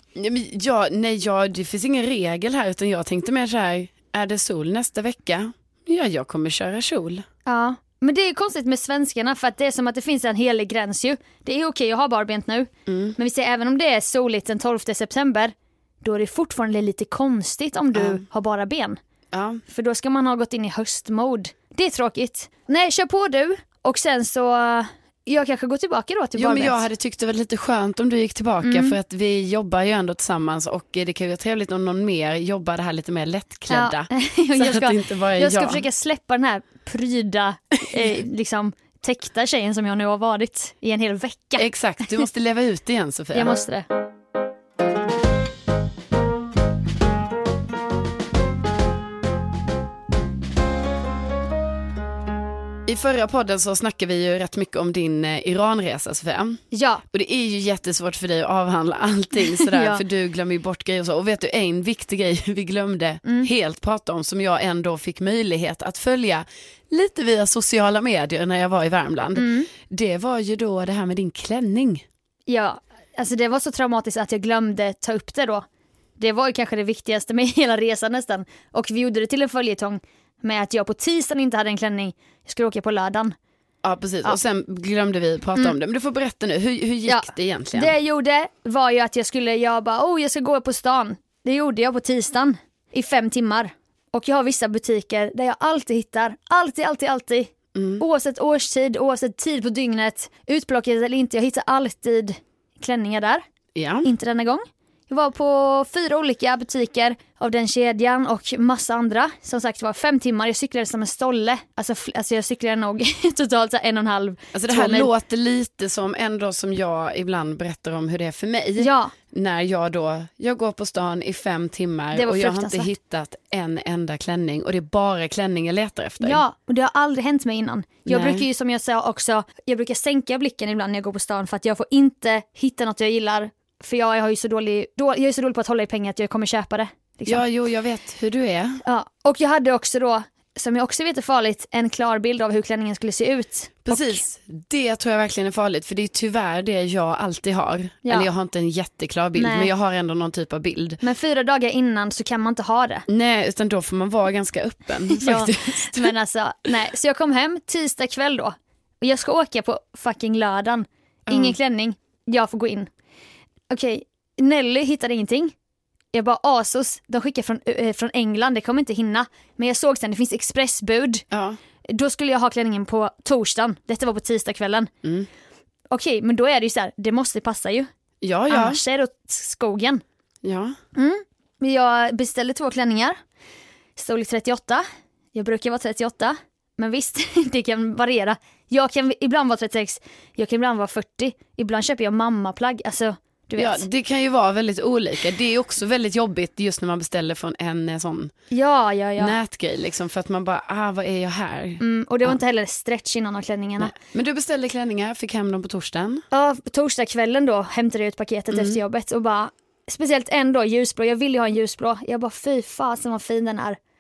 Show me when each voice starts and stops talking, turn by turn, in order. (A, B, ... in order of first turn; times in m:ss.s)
0:00.2-0:07.2 A
0:07.5-0:19.0 B
0:12.9-0:13.2 A
0:17.9-0:18.2 A
0:19.3-0:19.6 A
0:19.7-0:26.8 B
0:26.4-0:35.8 A
0:28.6-0:29.0 B
0:33.7-0:42.2 B
0:41.6-0:43.6 A
0:43.3-0:43.8 B
0:52.9-1:12.0 A
0:56.7-0:57.0 B
0:59.5-1:00.0 B
1:03.2-1:03.5 B
1:09.4-1:09.7 B
1:12.5-1:15.7 B
1:16.2-1:23.4 B
1:23.8-1:27.9 A
1:27.1-1:43.4 B
1:37.8-1:38.0 A
1:43.8-1:44.1 A
1:44.0-1:55.1 B
1:54.5-2:06.4 A
1:58.8-1:59.1 B
2:02.1-2:02.9 B
2:06.2-2:17.4 B
2:08.1-2:08.4 A
2:17.3-2:18.8 A
2:18.8-2:24.2 B
2:23.9-2:31.0 A
2:29.4-2:29.7 B
2:31.0-2:33.1 B
2:33.1-2:36.2 A
2:35.1-2:42.9 B
2:41.3-2:41.6 A
2:43.7-2:45.6 B
2:46.1-2:51.2 B
2:51.3-2:51.6 A
2:51.9-2:54.9 B
2:55.9-2:57.9 B
2:58.2-2:58.8 A
2:58.5-3:00.0 B
3:00.4-3:00.8 A
3:01.0-3:03.2 B
3:04.0-3:13.9 B
3:13.6-3:18.3 A
3:18.5-3:19.4 B
3:19.2-3:22.4 A
3:21.8-3:23.9 B
3:23.8-3:26.2 A
3:26.3-3:33.8 B
3:28.5-3:28.8 A